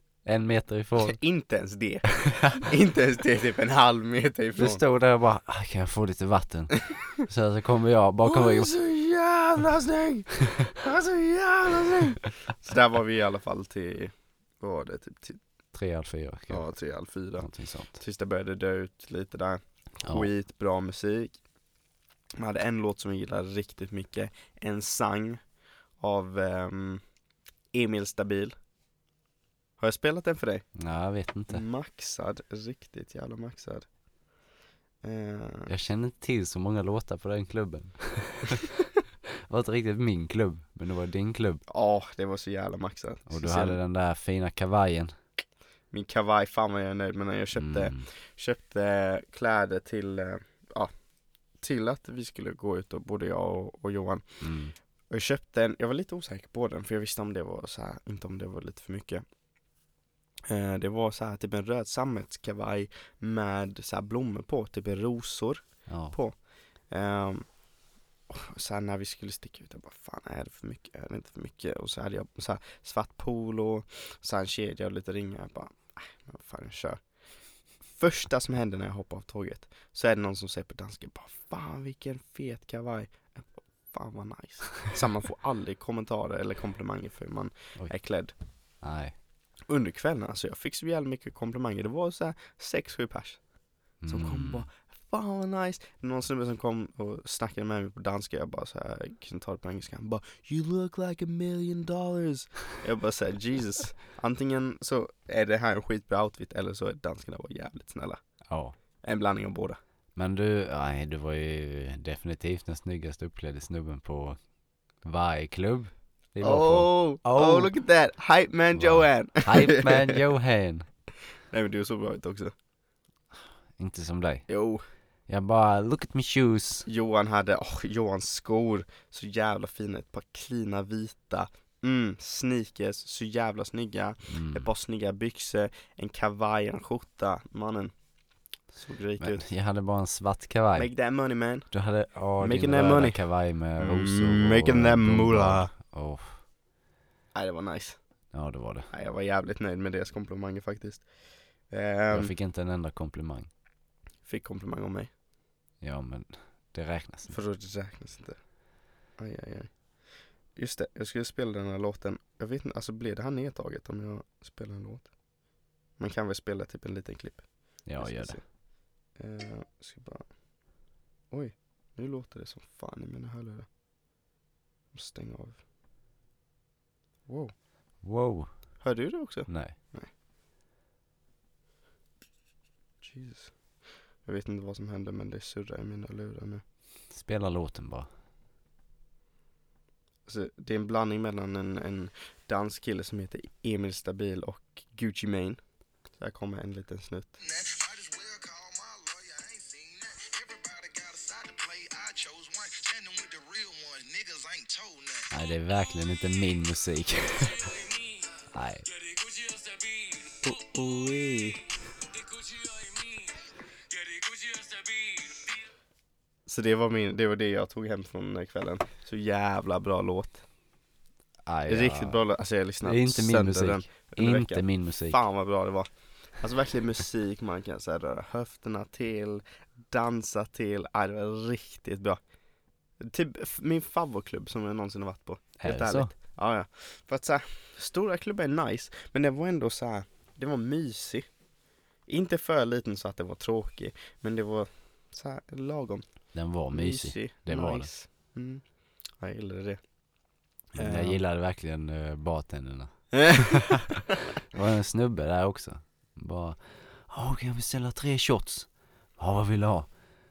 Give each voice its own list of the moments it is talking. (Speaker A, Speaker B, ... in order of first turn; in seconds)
Speaker A: 0.2-1.2, 4.6-8.7, 10.4-10.7, 15.7-16.6, 17.4-18.0, 30.8-31.6, 35.7-41.6, 43.3-45.1, 47.5-48.1, 54.4-54.7, 65.9-66.2, 88.8-89.1, 94.0-94.7, 108.5-108.7, 110.2-114.4, 115.0-117.7, 118.8-120.9, 123.3-124.5, 125.3-126.8, 134.3-134.7, 139.2-140.9, 141.7-146.4, 148.3-148.9, 152.1-153.5, 155.8-157.3, 167.8-168.4, 178.0-178.5, 179.5-179.7, 187.1-188.1, 205.3-207.7, 208.5-208.8, 221.4-222.2, 222.8-225.2, 235.6-236.1, 246.3-247.9, 250.7-253.7, 254.5-259.9
Speaker B: 1.0-4.8, 8.2-15.4, 16.5-21.4, 22.4-25.4, 26.0-27.0, 27.7-28.5, 29.8-30.6, 31.5-33.9, 35.0-35.7, 41.7-43.8, 45.9-50.9, 51.6-54.2, 55.1-59.2, 60.5-66.4, 66.9-67.5, 68.3-77.0, 77.9-88.3, 89.7-93.4, 94.1-108.2, 109.0-109.8, 116.4-120.2, 121.5-122.5, 124.5-124.8, 126.8-137.9, 138.7-139.4, 140.8-141.7, 142.4-143.2, 143.8-145.7, 147.3-148.0, 148.9-151.0, 151.7-152.3, 154.2-155.1, 157.3-158.4, 159.2-159.7, 160.6-165.1, 166.0-168.5, 169.1-170.3, 171.3-173.7, 174.9-175.6, 177.3-177.5, 178.8-180.1, 183.0-183.5, 184.2-186.6, 190.3-195.6, 196.2-197.3, 210.4-211.6, 216.4-220.4, 221.7-232.2, 233.0-241.3, 242.1-246.1, 246.7-248.6, 249.2-249.8, 250.8-251.2, 253.1-254.2
Speaker C: 197.4-205.3, 207.4-210.8, 212.0-215.6